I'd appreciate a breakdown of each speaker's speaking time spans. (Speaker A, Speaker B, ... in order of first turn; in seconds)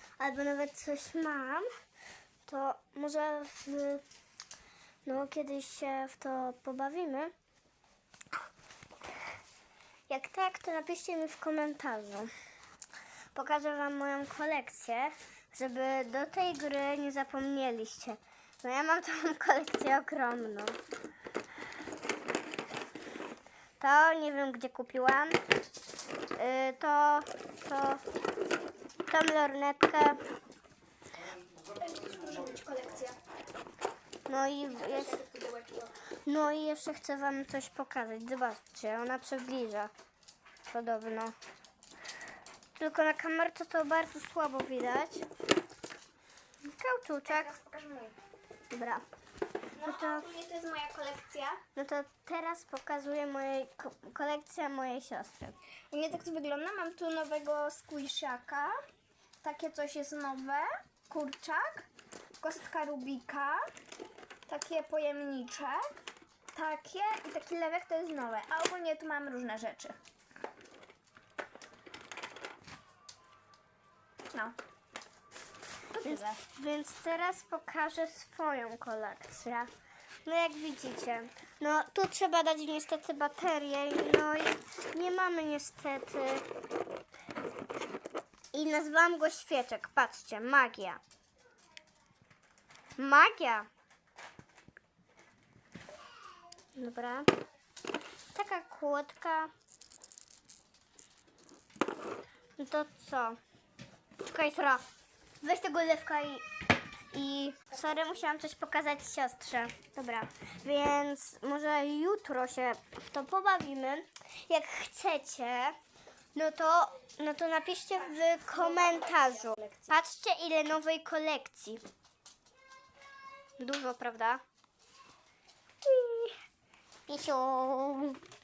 Speaker A: 0.2-1.6, 2.4-4.0, 5.0-7.3, 10.1-12.3, 13.3-20.8, 23.8-25.4, 26.4-28.0, 29.1-30.2, 34.3-35.2, 36.2-39.9, 40.7-41.3, 42.8-45.2, 46.6-47.5, 48.7-49.0, 49.8-50.2, 51.8-55.5, 76.0-79.7, 80.2-86.5, 88.5-91.0, 93.0-93.7, 96.8-97.3, 98.3-99.5, 102.6-103.4, 104.3-104.8, 105.4-106.4, 107.1-115.8, 116.3-121.8, 123.6-124.4, 125.8-126.3, 127.1-128.2
Speaker B: 31.7-33.2, 34.7-35.9, 47.3-48.2, 49.8-51.6, 55.9-58.8, 59.4-61.9, 62.4-63.6, 64.5-65.8, 66.5-69.9, 75.9-76.4, 118.5-119.9